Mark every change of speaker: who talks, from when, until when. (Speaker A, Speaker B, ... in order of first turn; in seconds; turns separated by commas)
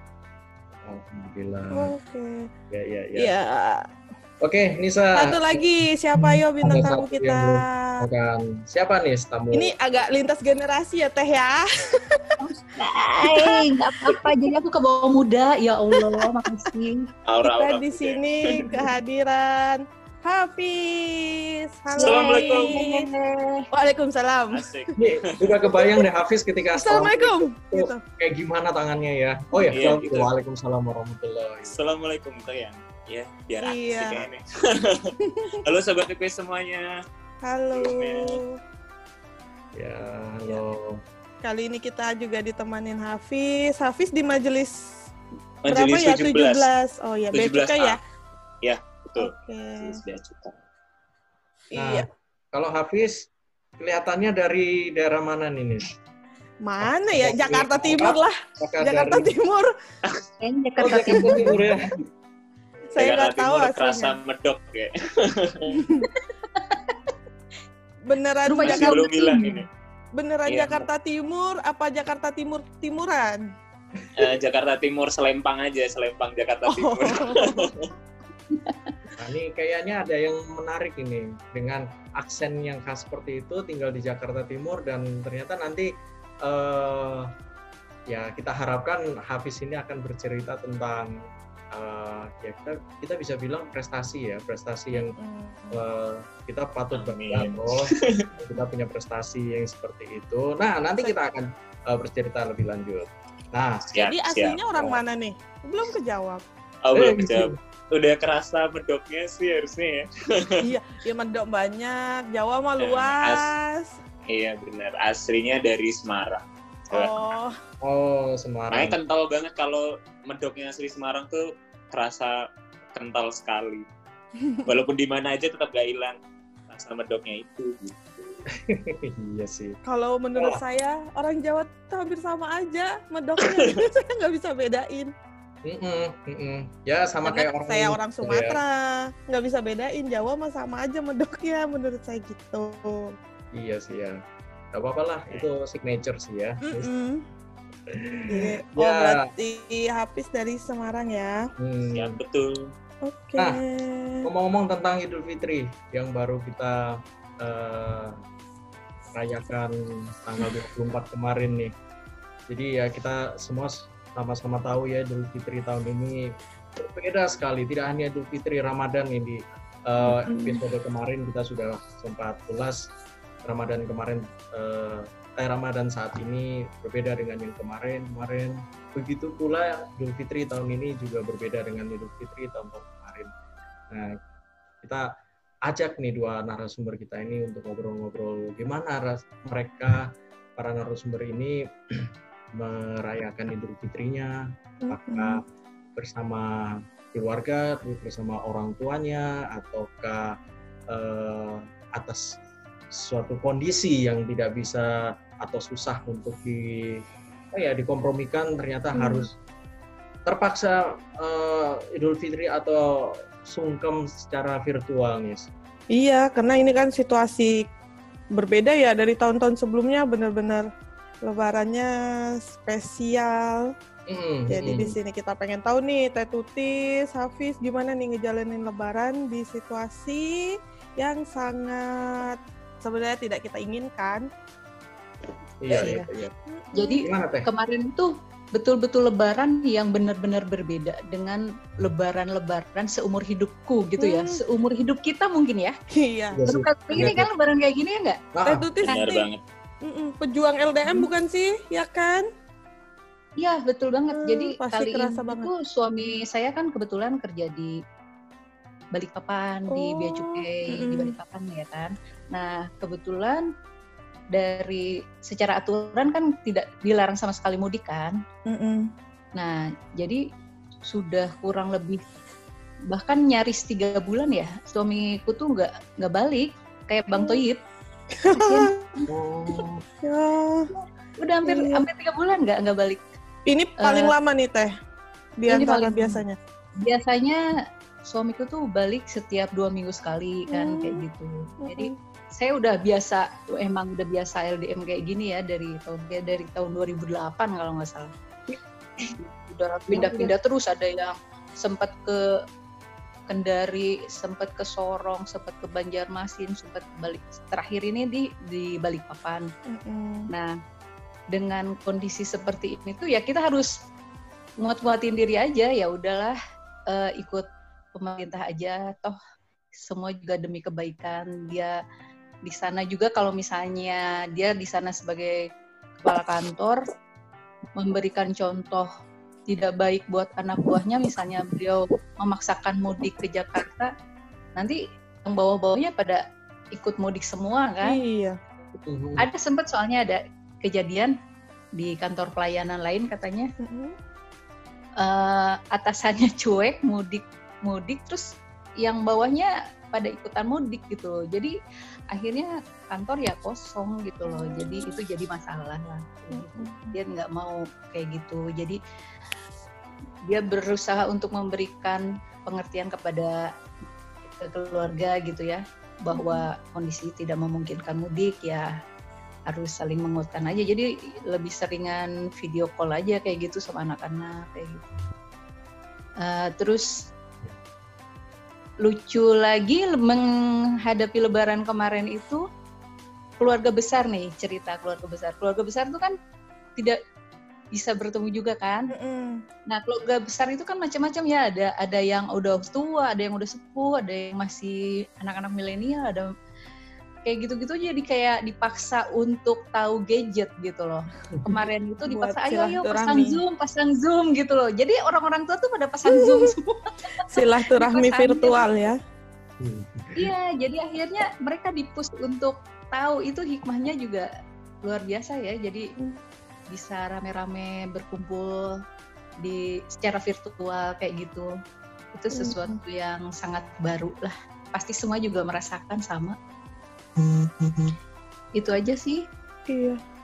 Speaker A: 0.8-1.9, Speaker B: 1.7-2.5, Speaker A: 2.7-3.3, Speaker B: 3.2-3.9, Speaker A: 4.4-5.7, Speaker B: 5.2-7.7, Speaker A: 6.6-9.7, Speaker B: 9.5-12.3, Speaker C: 12.4-17.1, Speaker B: 13.2-14.3, Speaker B: 15.9-16.6, Speaker D: 17.3-18.9, Speaker B: 17.4-23.1, Speaker C: 21.9-23.7, Speaker D: 22.0-22.8, Speaker B: 23.7-24.7, Speaker D: 24.5-25.8, Speaker A: 25.0-31.8, Speaker B: 26.8-28.0, Speaker D: 29.7-30.3, Speaker D: 31.7-36.9, Speaker B: 33.6-34.3, Speaker B: 37.4-38.5, Speaker D: 37.7-38.4, Speaker A: 39.8-41.0, Speaker B: 41.4-44.8, Speaker D: 45.6-46.7, Speaker B: 45.7-48.0, Speaker D: 47.3-48.0, Speaker D: 48.6-50.6, Speaker B: 49.2-50.0, Speaker B: 51.7-52.1, Speaker A: 51.8-55.9, Speaker B: 56.6-59.7, Speaker A: 56.8-59.3, Speaker C: 60.4-61.7, Speaker A: 60.8-62.0, Speaker B: 61.3-61.6, Speaker B: 62.9-64.2, Speaker D: 63.0-65.8, Speaker B: 65.7-66.1, Speaker C: 66.3-67.0, Speaker B: 68.1-69.0, Speaker C: 68.5-69.6, Speaker D: 68.6-69.7, Speaker B: 70.2-73.4, Speaker D: 70.5-70.9, Speaker A: 74.0-74.3, Speaker D: 74.2-77.8, Speaker B: 76.7-77.7, Speaker A: 79.2-85.9, Speaker A: 86.4-87.3, Speaker A: 88.1-91.2, Speaker A: 91.7-95.2, Speaker B: 94.9-95.8, Speaker A: 95.7-103.9, Speaker D: 96.9-98.3, Speaker D: 103.9-105.0, Speaker B: 104.0-106.5, Speaker D: 106.8-110.6, Speaker A: 106.9-107.6, Speaker B: 110.6-114.0, Speaker D: 112.8-113.5, Speaker D: 114.3-117.2, Speaker B: 116.9-117.5, Speaker A: 117.8-119.0, Speaker D: 118.7-123.9, Speaker D: 124.7-126.2, Speaker D: 126.7-128.4, Speaker A: 128.5-129.8, Speaker B: 129.9-135.1, Speaker A: 135.6-138.6, Speaker B: 137.2-143.2, Speaker A: 143.5-144.2, Speaker A: 144.7-146.9, Speaker B: 146.7-147.2, Speaker A: 147.9-149.2, Speaker B: 148.3-151.4, Speaker A: 151.6-152.2, Speaker D: 151.9-152.7, Speaker B: 153.1-154.2, Speaker A: 154.2-158.2, Speaker A: 159.1-161.7, Speaker A: 162.5-172.9, Speaker B: 170.0-170.6, Speaker A: 173.4-183.3, Speaker A: 183.9-184.2, Speaker A: 184.8-185.1, Speaker A: 185.7-195.4, Speaker B: 194.8-195.4, Speaker A: 196.0-200.4, Speaker A: 200.9-202.4, Speaker A: 202.9-209.4, Speaker B: 208.9-209.3, Speaker A: 210.3-215.5, Speaker B: 215.9-217.7, Speaker B: 218.3-220.7, Speaker B: 221.2-223.7, Speaker A: 224.1-224.9, Speaker B: 224.5-234.3, Speaker A: 235.6-236.3, Speaker C: 235.7-236.1, Speaker B: 236.5-237.1, Speaker C: 236.8-245.8, Speaker A: 237.0-237.5, Speaker B: 244.0-244.4, Speaker B: 246.0-246.4, Speaker A: 246.3-247.3, Speaker C: 246.4-248.2, Speaker A: 248.3-248.9, Speaker B: 248.4-249.3, Speaker D: 248.8-249.4, Speaker B: 249.8-252.3, Speaker C: 253.4-257.8, Speaker B: 254.2-255.5, Speaker C: 258.9-263.5, Speaker B: 259.7-261.1, Speaker C: 264.3-268.2, Speaker B: 268.5-268.9, Speaker C: 269.4-270.2, Speaker C: 270.9-272.0, Speaker C: 272.9-277.6, Speaker B: 277.1-277.4, Speaker B: 278.2-278.9, Speaker C: 278.3-278.7, Speaker A: 279.1-279.8, Speaker B: 280.0-280.7, Speaker C: 280.7-283.0, Speaker B: 281.4-281.8, Speaker B: 283.5-284.7, Speaker C: 283.8-284.1, Speaker B: 285.4-286.4, Speaker C: 285.5-286.2, Speaker C: 286.8-287.4, Speaker C: 288.1-298.1, Speaker B: 290.5-291.0, Speaker B: 291.6-291.9, Speaker C: 299.1-302.3, Speaker B: 300.0-300.3, Speaker C: 303.3-309.5, Speaker B: 309.7-310.3, Speaker C: 310.3-310.5, Speaker C: 311.3-313.7, Speaker C: 314.6-316.4, Speaker C: 316.9-317.5, Speaker C: 318.0-319.2, Speaker C: 319.8-321.8, Speaker C: 322.5-325.4, Speaker C: 326.0-326.8, Speaker C: 327.8-328.9, Speaker C: 329.5-333.9, Speaker C: 334.6-336.2, Speaker C: 336.8-338.0, Speaker B: 337.8-338.4, Speaker A: 338.9-339.3, Speaker C: 339.2-341.1, Speaker C: 341.8-343.5, Speaker B: 343.6-344.0, Speaker C: 345.0-351.5, Speaker C: 352.1-358.8, Speaker B: 354.3-355.0, Speaker B: 356.3-357.0, Speaker C: 360.3-363.5, Speaker C: 364.3-368.7, Speaker B: 366.1-366.5, Speaker C: 369.5-374.9, Speaker C: 376.2-376.9, Speaker C: 378.8-380.2, Speaker C: 380.9-382.4, Speaker C: 383.4-386.1, Speaker C: 387.7-388.9, Speaker B: 388.9-389.4, Speaker C: 389.7-396.2, Speaker C: 397.3-408.7, Speaker B: 402.1-403.4, Speaker B: 406.1-406.5, Speaker B: 407.3-409.0, Speaker A: 409.6-410.3, Speaker C: 410.2-414.3, Speaker C: 414.9-415.9, Speaker C: 416.7-418.7, Speaker C: 419.4-421.5, Speaker C: 422.1-426.4, Speaker B: 422.3-422.8, Speaker C: 428.6-429.2, Speaker B: 429.7-430.0